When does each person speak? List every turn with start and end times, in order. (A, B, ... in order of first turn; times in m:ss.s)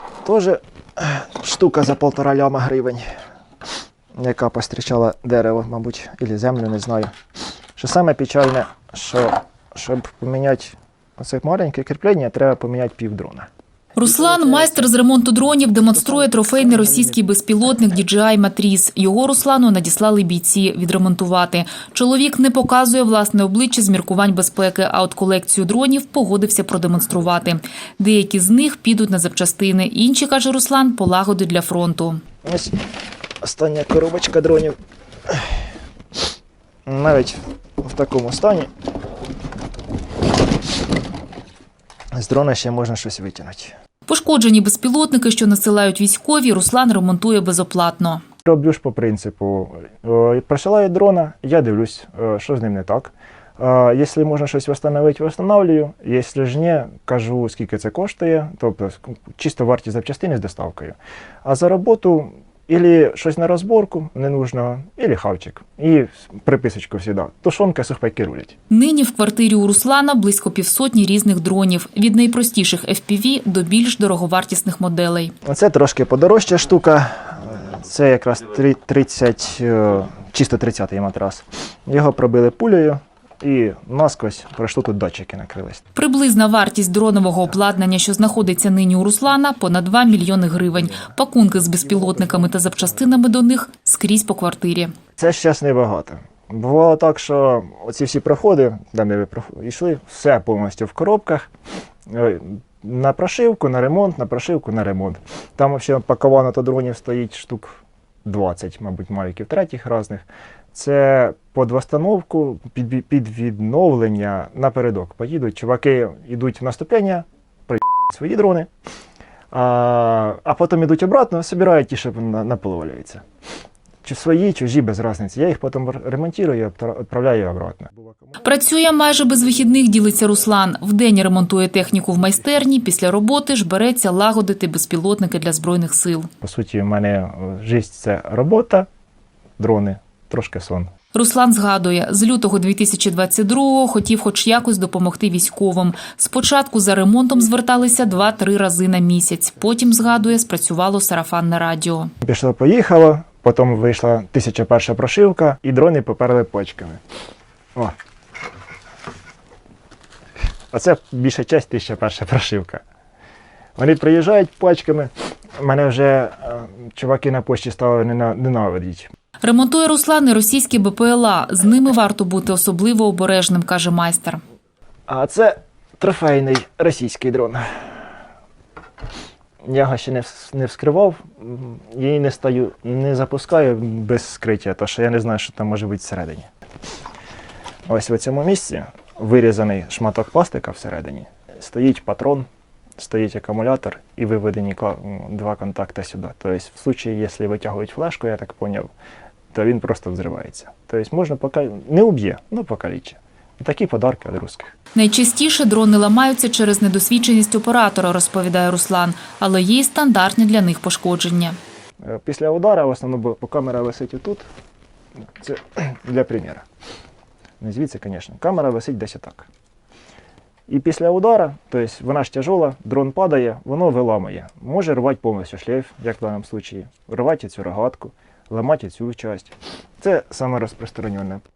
0:00.2-0:03.0 A
0:04.2-0:07.1 A
0:07.8-0:13.5 A
0:14.0-0:32.2 B
0:14.0-0:14.9 A
0:15.8-0:17.2 A
0:32.4-0:32.8 A
0:33.4-0:34.8 A
0:35.3-0:35.5 A
0:36.8-0:38.7 A
0:42.1-0:43.7 A
0:44.1-0:48.2 B
0:48.4-1:08.6 A
1:08.7-1:15.3 B
1:15.4-1:25.8 A
1:26.0-1:34.9 B
1:31.8-1:33.0 A
1:35.2-1:41.5 A
1:42.1-1:58.7 A
1:59.5-2:03.2 A
2:04.0-2:08.0 A
2:08.4-2:16.3 B
2:16.4-2:18.9 A
2:19.6-2:20.9 A
2:21.1-2:32.1 B
2:32.2-2:37.0 A
2:40.7-2:42.8 A
2:43.8-2:49.1 A
2:49.4-2:54.4 B
2:55.1-2:57.8 A
2:59.6-3:06.5 A
3:07.9-3:18.9 A
3:19.5-3:24.7 A
3:24.9-3:31.6 B
3:32.0-3:34.4 A
3:35.4-3:36.6 A
3:37.6-3:39.5 A
3:40.7-3:51.4 A